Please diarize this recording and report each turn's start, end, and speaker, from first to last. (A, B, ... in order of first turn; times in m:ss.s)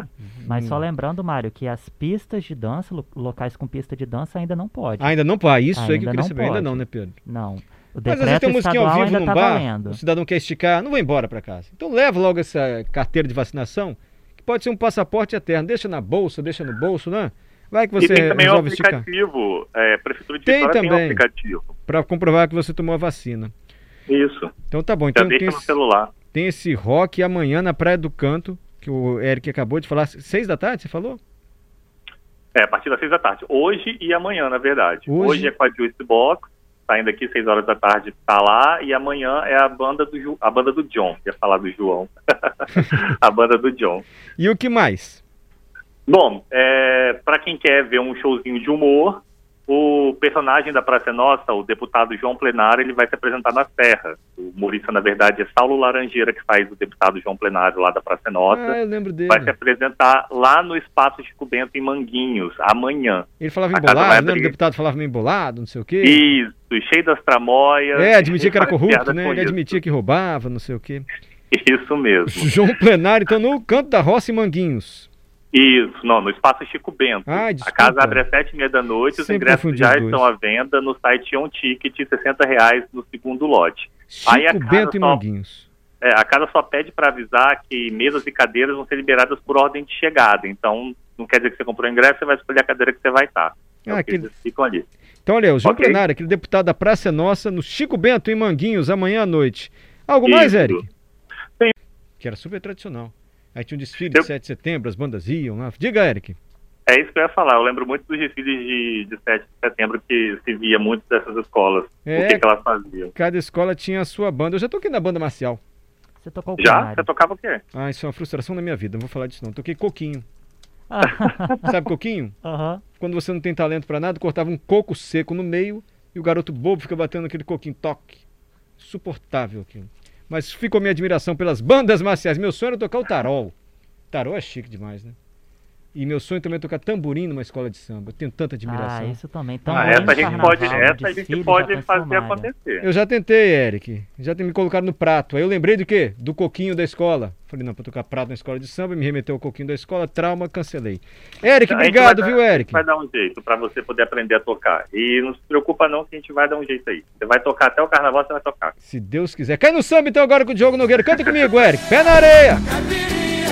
0:00.4-0:05.1 A
0:00.4-0:00.8 B
0:05.0-0:07.2 B
0:05.7-0:10.0 A
0:08.1-0:19.0 B
0:18.0-0:21.7 C
0:20.4-0:21.2 B
0:21.8-0:23.5 B
0:24.1-0:24.5 C
0:24.7-0:25.8 B
0:25.1-0:26.1 C
0:26.3-0:31.2 B
0:32.5-0:44.0 C
0:35.1-0:35.5 B
0:44.4-0:45.2 B
0:46.1-1:04.5 C
0:58.5-0:59.5 B
1:03.4-1:06.3 B
1:06.0-1:09.8 C
1:08.0-1:11.0 B
1:11.5-1:12.5 C
1:12.3-1:15.1 B
1:15.5-1:25.2 C
1:17.3-1:18.2 B
1:19.1-1:20.2 B
1:24.1-1:25.7 B
1:26.0-1:34.8 C
1:33.8-1:34.3 B
1:35.2-1:40.9 B
1:35.6-1:36.0 C
1:40.2-1:40.8 C
1:42.2-1:46.4 B
1:46.9-1:53.1 C
1:52.0-1:52.4 B
1:53.1-1:55.6 B
1:56.2-1:57.1 A
1:56.6-1:57.6 C
1:57.7-2:00.2 B
2:00.9-2:01.7 A
2:01.7-2:02.4 B
2:02.4-2:02.8 A
2:03.0-2:08.2 B
2:08.8-2:13.5 B
2:14.1-2:15.2 B
2:15.9-2:21.1 B
2:18.6-2:22.5 A
2:19.7-2:22.8 C
2:22.8-2:32.8 B
2:31.7-2:38.7 C
2:38.8-2:42.6 B